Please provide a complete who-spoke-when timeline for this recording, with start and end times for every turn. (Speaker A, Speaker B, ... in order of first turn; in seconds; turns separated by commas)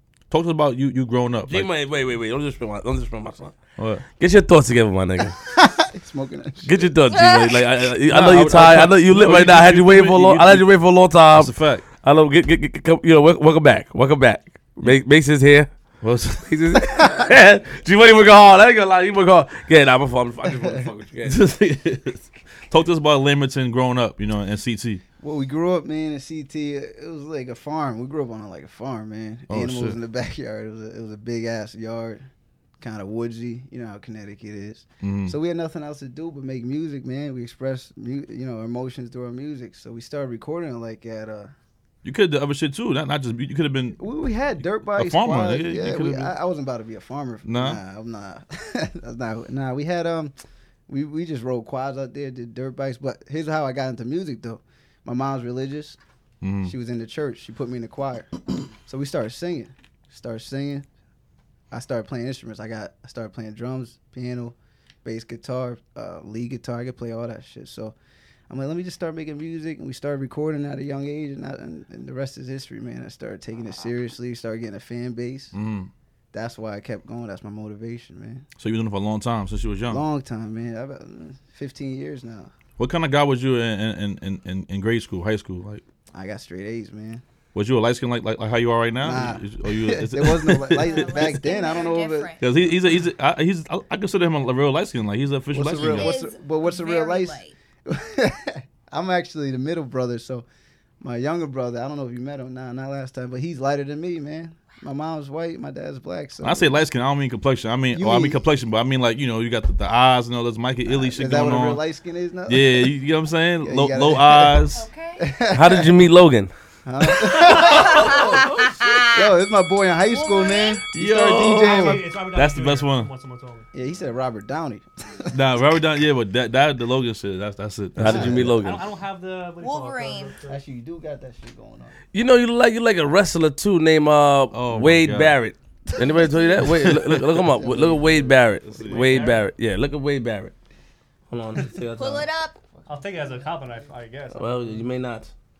Speaker A: 0.3-1.7, Speaker B: 1.5-3.6, Speaker A: 3.8-4.0, Speaker B: 4.2-5.4, Speaker C: 5.5-6.9, Speaker B: 6.6-15.7, Speaker D: 7.1-7.7, Speaker A: 8.1-10.7, Speaker A: 11.3-11.8, Speaker A: 16.0-16.5, Speaker B: 16.4-21.4, Speaker C: 20.5-20.9, Speaker A: 21.3-25.0, Speaker C: 25.2-32.3, Speaker A: 29.5-30.0, Speaker C: 32.8-41.5, Speaker A: 35.0-35.4, Speaker A: 42.0-44.0, Speaker C: 44.0-50.3, Speaker A: 44.9-46.3, Speaker A: 47.5-47.8, Speaker C: 50.9-56.0, Speaker A: 56.4-56.7, Speaker C: 56.6-60.9, Speaker C: 61.7-68.0, Speaker C: 68.5-75.5, Speaker A: 75.5-75.9, Speaker C: 76.3-78.5, Speaker A: 78.6-80.0, Speaker C: 79.9-82.5, Speaker A: 82.8-85.8, Speaker C: 86.1-87.2, Speaker A: 87.5-91.3, Speaker C: 89.0-92.3, Speaker D: 90.7-92.4, Speaker A: 92.4-96.1, Speaker C: 95.5-100.5, Speaker D: 95.8-97.6, Speaker C: 101.0-106.8, Speaker A: 106.4-111.8, Speaker C: 107.9-108.4, Speaker C: 110.8-112.9, Speaker A: 112.5-114.8, Speaker C: 113.6-116.0, Speaker D: 114.7-115.3, Speaker B: 115.5-116.5, Speaker C: 116.8-118.5, Speaker D: 117.3-119.3, Speaker A: 117.6-118.7, Speaker C: 119.0-122.1, Speaker D: 120.1-120.8, Speaker A: 120.9-123.1, Speaker E: 121.4-123.7, Speaker C: 123.7-125.5, Speaker A: 125.3-128.6, Speaker B: 128.0-128.9, Speaker C: 128.0-128.7, Speaker E: 128.6-130.6, Speaker D: 129.6-130.4, Speaker C: 130.5-131.9, Speaker B: 132.1-140.5, Speaker A: 134.5-135.3, Speaker A: 136.9-137.2, Speaker C: 137.5-138.4, Speaker A: 138.7-139.2, Speaker E: 138.9-139.4, Speaker B: 141.3-142.3, Speaker D: 142.0-142.6, Speaker E: 142.9-144.6, Speaker B: 144.3-145.3